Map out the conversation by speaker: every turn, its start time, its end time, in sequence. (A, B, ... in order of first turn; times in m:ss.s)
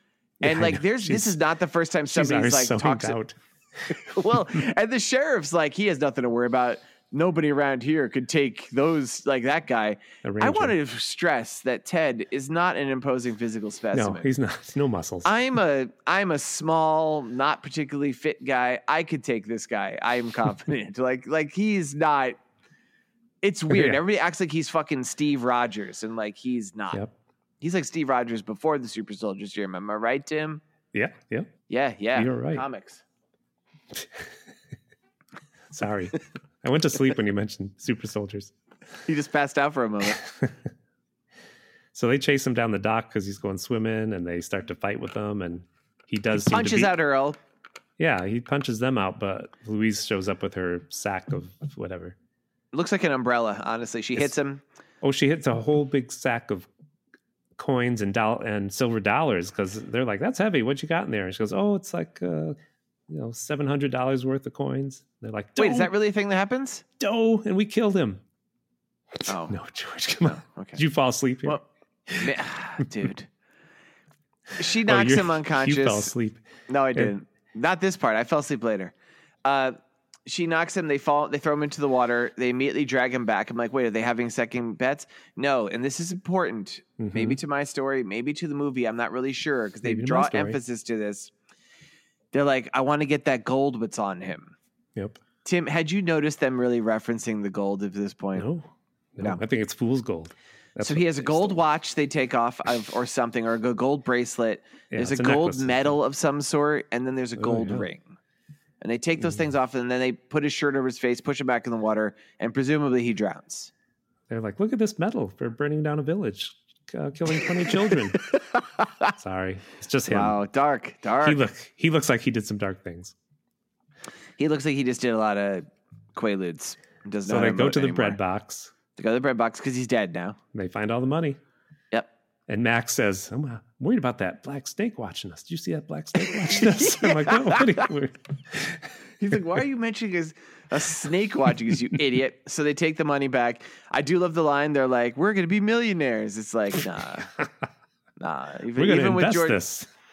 0:00.4-0:01.4 A
0:00.4-0:03.2 B
0:02.1-0:04.1 A
0:04.0-0:14.3 B
0:10.2-0:10.8 A
0:13.9-0:15.3 A
0:15.2-0:22.4 B
0:23.4-0:27.0 B
0:23.7-0:24.0 A
0:27.6-0:30.6 B
0:30.9-0:31.5 A
0:31.7-0:33.0 B
0:32.1-0:32.6 A
0:33.9-0:34.2 A
0:35.7-0:38.5 A
0:39.1-0:40.2 B
0:41.9-0:46.9 A
0:46.4-0:47.4 B
0:48.0-0:52.2 A
0:52.7-0:54.6 B
0:55.0-0:56.7 A
0:57.6-1:02.6 A
1:03.1-1:05.9 A
1:05.6-1:06.8 B
1:07.0-1:08.2 A
1:09.2-1:12.3 A
1:09.2-1:09.5 B
1:10.2-1:10.8 B
1:12.2-1:13.3 B
1:14.6-1:16.1 B
1:14.8-1:16.4 A
1:16.7-1:31.3 B
1:27.0-1:27.4 A
1:29.8-1:30.6 A
1:32.3-1:34.5 B
1:35.4-1:38.5 B
1:38.4-1:41.6 A
1:40.8-1:48.2 B
1:44.9-1:46.0 A
1:47.4-1:47.9 A
1:48.8-1:53.7 B
1:54.3-1:58.2 A
1:57.6-1:59.1 B
1:59.2-2:00.4 A
2:00.1-2:01.4 B
2:01.2-2:03.1 A
2:04.4-2:08.2 B
2:07.2-2:08.7 A
2:09.0-2:10.4 B
2:10.5-2:11.4 A
2:12.5-2:18.9 A
2:16.2-2:17.9 B
2:19.2-2:27.3 B
2:28.2-2:29.6 B
2:28.7-2:29.9 A